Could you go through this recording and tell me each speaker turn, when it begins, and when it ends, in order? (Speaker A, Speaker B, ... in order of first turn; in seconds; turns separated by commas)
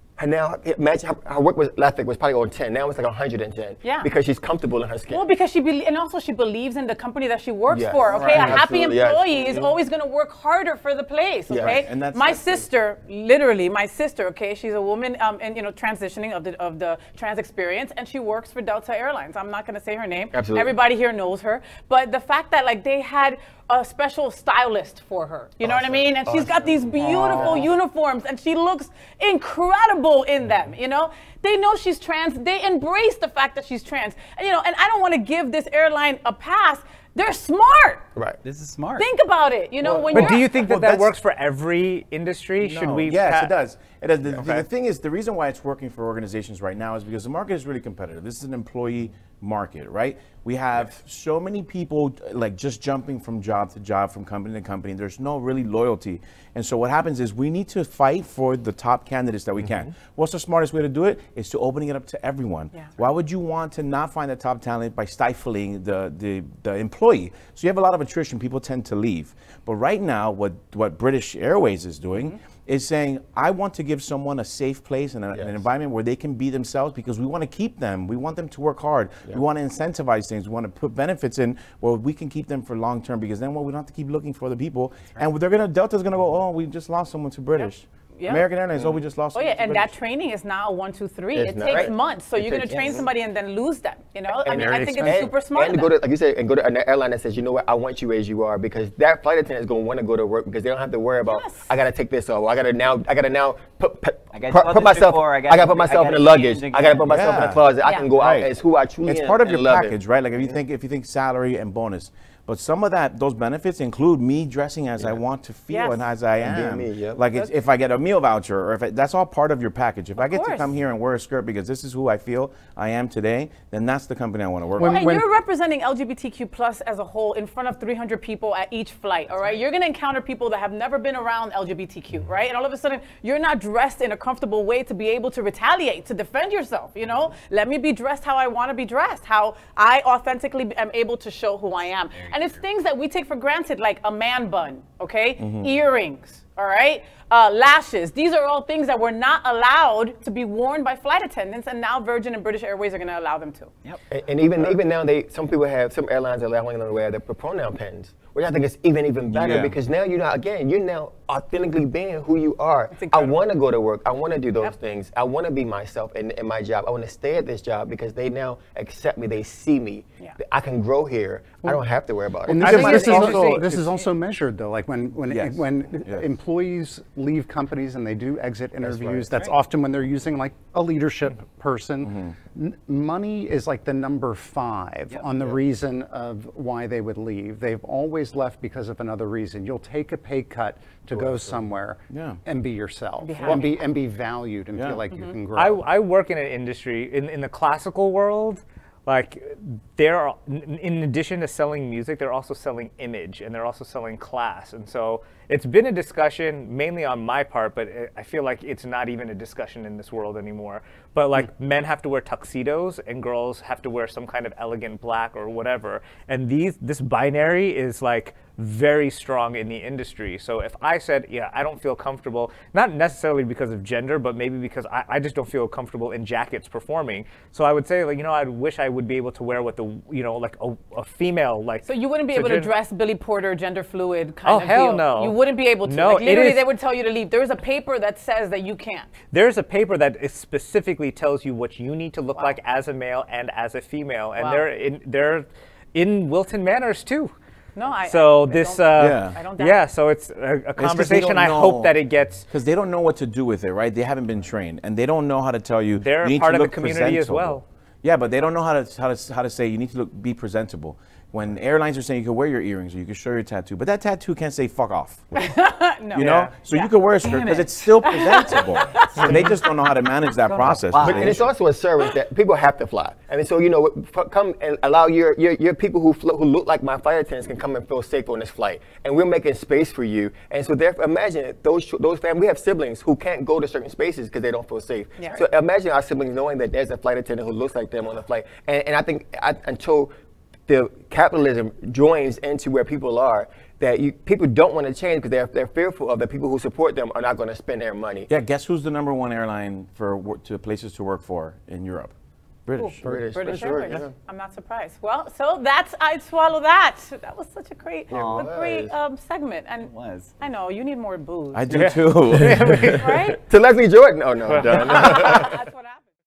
Speaker A: 0.2-5.2, Speaker B: 3.8-4.1, Speaker B: 5.1-38.0, Speaker A: 7.7-9.7, Speaker C: 8.1-8.6, Speaker A: 11.5-11.8, Speaker C: 11.5-12.7, Speaker A: 20.3-20.7, Speaker A: 25.6-27.7, Speaker A: 38.1-38.4, Speaker D: 38.4-39.1, Speaker B: 39.0-40.7, Speaker A: 39.9-40.1, Speaker C: 39.9-41.1, Speaker E: 40.1-43.5, Speaker C: 42.6-89.9, Speaker A: 44.3-44.7, Speaker A: 75.3-75.6, Speaker B: 88.2-88.5, Speaker B: 89.3-95.9, Speaker A: 91.3-91.9, Speaker D: 91.7-93.1, Speaker A: 92.7-93.1, Speaker A: 94.4-110.0, Speaker E: 94.5-95.3, Speaker B: 101.3-101.6, Speaker D: 104.3-107.5, Speaker C: 107.1-107.6, Speaker B: 107.8-108.1, Speaker C: 108.2-108.5, Speaker C: 109.0-125.0, Speaker B: 115.7-116.1, Speaker A: 116.4-117.2, Speaker B: 120.2-120.7, Speaker F: 124.8-125.2, Speaker B: 124.8-153.7, Speaker D: 142.0-142.6, Speaker C: 145.4-145.7, Speaker A: 154.1-173.5, Speaker C: 159.3-159.8, Speaker B: 162.9-163.4, Speaker F: 172.5-195.8, Speaker C: 172.6-173.7, Speaker E: 172.6-173.9, Speaker C: 175.3-176.3, Speaker A: 178.8-179.4, Speaker C: 182.0-182.3, Speaker A: 191.2-191.5, Speaker C: 192.1-192.4, Speaker B: 193.2-193.8, Speaker C: 194.8-195.0, Speaker E: 195.5-232.7, Speaker B: 231.9-239.1, Speaker E: 234.4-236.7, Speaker E: 239.3-247.3, Speaker B: 244.4-244.7, Speaker B: 247.8-249.9, Speaker E: 248.0-252.4, Speaker C: 249.0-249.4, Speaker C: 250.8-251.9, Speaker C: 252.5-265.5, Speaker E: 255.9-257.6, Speaker B: 265.4-266.9, Speaker C: 266.1-271.4, Speaker D: 267.2-269.6, Speaker B: 268.0-269.5, Speaker D: 270.4-271.5, Speaker A: 271.0-290.1, Speaker A: 290.7-298.3, Speaker C: 298.3-302.1, Speaker C: 302.7-304.0, Speaker B: 302.8-312.1, Speaker A: 303.0-304.1, Speaker A: 308.1-309.0, Speaker D: 308.1-308.5, Speaker D: 309.8-310.4, Speaker C: 311.5-313.2, Speaker E: 311.8-313.4, Speaker B: 312.8-313.4, Speaker A: 313.5-315.6, Speaker E: 314.4-315.3, Speaker B: 314.6-316.1